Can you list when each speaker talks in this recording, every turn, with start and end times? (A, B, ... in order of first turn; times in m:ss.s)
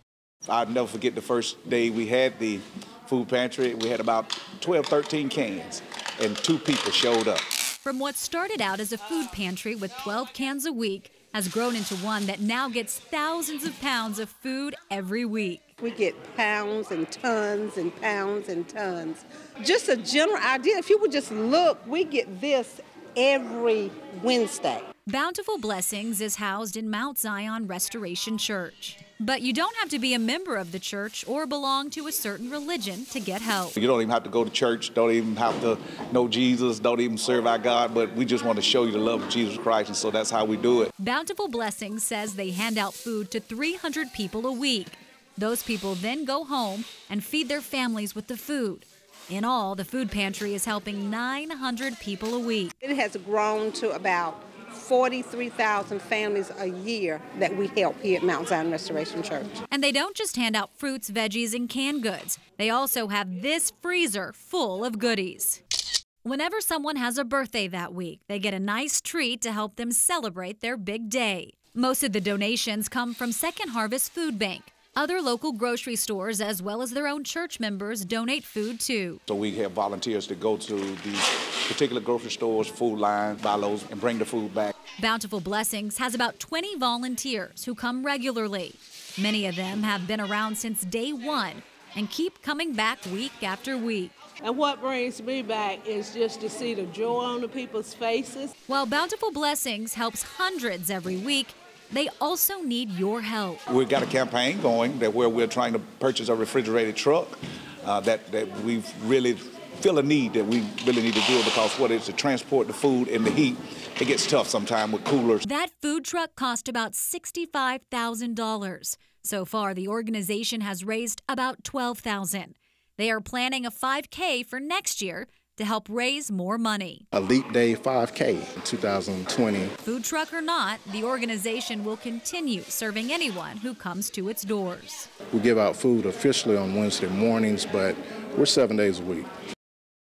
0:00.4-0:07.4 A
0:07.8-0:15.6 B
0:15.8-0:24.8 C
0:25.0-0:33.8 B
0:33.8-0:40.9 A
0:41.0-0:52.8 B
0:52.8-0:59.5 C
0:59.7-1:05.6 B
1:06.2-1:19.2 B
1:19.3-1:24.7 A
1:25.0-1:34.1 B
1:34.4-1:38.5 D
1:38.7-1:43.6 B
1:43.7-1:55.4 A
1:55.4-2:07.0 B
2:07.1-2:09.7 E
2:09.8-2:15.1 B
2:15.3-2:19.2 E